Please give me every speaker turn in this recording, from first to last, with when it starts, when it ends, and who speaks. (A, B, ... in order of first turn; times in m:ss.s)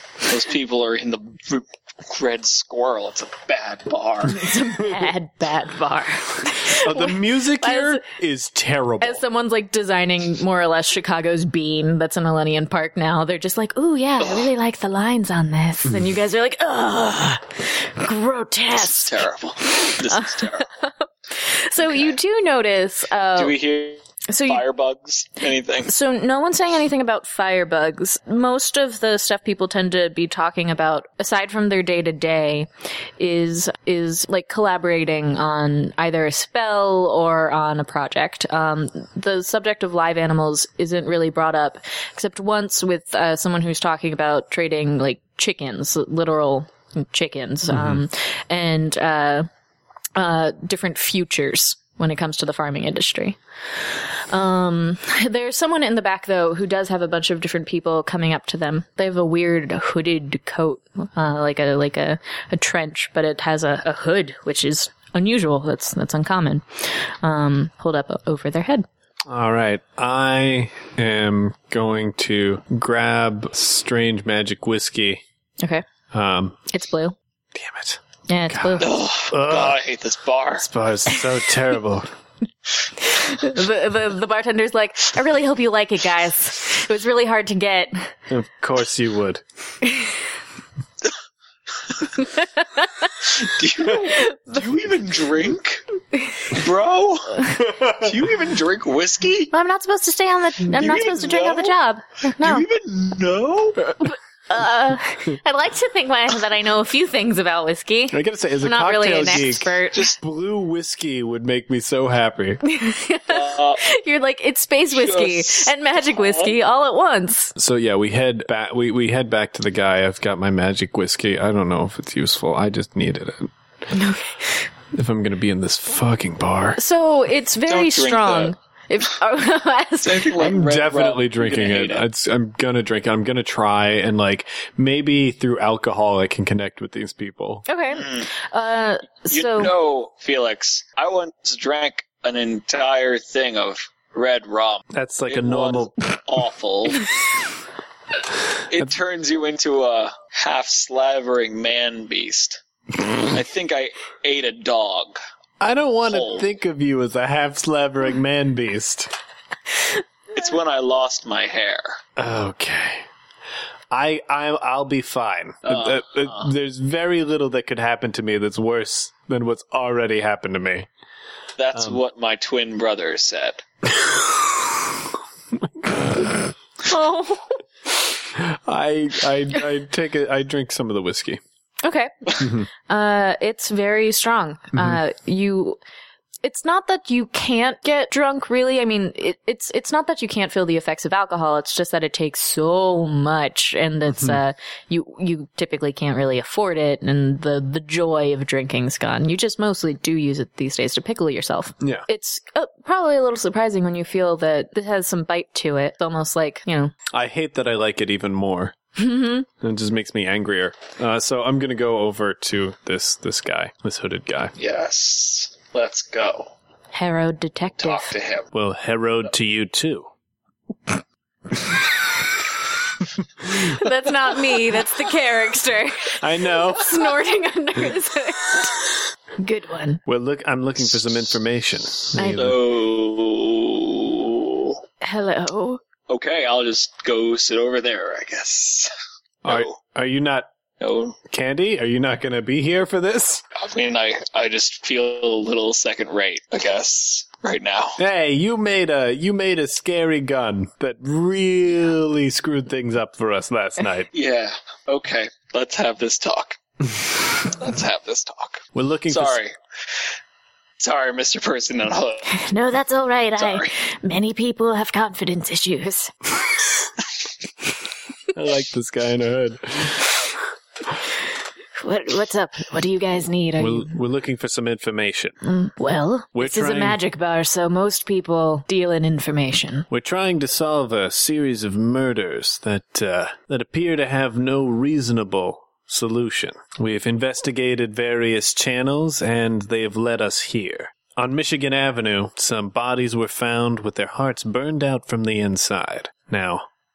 0:00.2-0:04.4 A
0:04.3-0:08.0 B
0:06.8-0:09.2 C
0:09.0-0:19.2 B
0:14.2-0:14.5 A
0:18.8-0:20.7 A
0:20.1-0:23.6 B
0:21.8-0:22.1 A
0:23.4-0:25.9 A
0:24.3-0:24.6 B
0:25.9-0:49.5 B
0:47.7-0:48.0 C
0:50.2-0:53.4 B
0:54.3-1:08.8 B
1:09.3-1:15.2 C
1:15.6-1:15.8 B
1:16.1-1:16.6 C
1:16.7-1:17.1 B
1:17.5-1:19.8 C
1:18.3-1:18.9 B
1:18.8-1:20.7 A
1:20.6-1:22.1 C
1:23.0-1:28.1 B
1:28.3-1:29.4 C
1:32.8-1:33.1 B
1:33.4-1:35.8 A
1:34.0-1:34.6 B
1:36.5-1:39.5 A
1:39.5-1:42.6 B
1:40.7-1:41.7 A
1:42.4-1:43.8 A
1:43.9-1:50.1 B
1:48.1-1:52.6 C
1:52.6-1:57.5 B
1:53.3-1:53.8 A
1:54.9-1:56.5 A
1:57.6-2:03.5 C
2:03.9-2:04.5 B
2:04.9-2:06.8 C
2:06.8-2:10.3 B
2:07.7-2:08.5 A
2:10.0-2:12.0 A
2:10.4-2:17.6 C
2:17.6-2:19.7 B
2:18.0-2:18.3 A
2:19.3-2:27.1 A
2:24.9-2:25.9 C
2:28.7-2:32.6 A
2:33.2-2:35.2 A
2:35.6-2:39.1 C
2:36.1-2:36.5 A
2:40.3-2:42.0 A
2:42.2-2:43.0 C
2:43.9-2:50.9 C
2:45.6-2:46.5 A
2:51.6-2:53.6 A
2:51.7-2:52.0 C
2:55.8-2:56.5 C
2:56.9-2:57.6 B
2:58.3-3:01.4 C
3:01.8-3:05.8 B
3:02.4-3:02.7 C
3:06.4-3:26.9 B
3:27.1-3:28.7 C
3:29.0-3:29.5 B
3:29.6-3:34.5 C
3:34.6-3:36.5 A
3:36.9-3:38.1 B
3:37.8-3:38.5 A
3:38.5-3:40.1 C
3:43.7-3:50.0 B
3:46.2-3:47.0 C
3:50.0-3:52.6 C
3:52.1-3:54.8 A
3:52.2-3:52.5 B
3:55.0-3:55.8 B
3:56.1-3:58.9 A
3:59.4-4:00.5 C
3:59.4-3:59.7 A
4:00.8-4:01.2 A
4:01.2-4:03.4 C
4:03.6-4:08.0 A
4:08.0-4:14.1 C
4:14.1-4:16.6 A
4:17.4-4:19.5 A
4:18.7-4:19.4 C
4:20.8-4:22.3 A
4:22.3-4:26.1 B
4:23.4-4:23.7 A
4:28.3-4:30.3 C
4:31.8-4:33.9 B
4:33.6-4:35.4 C
4:35.4-4:39.9 B
4:36.3-4:37.0 C
4:39.9-4:56.6 C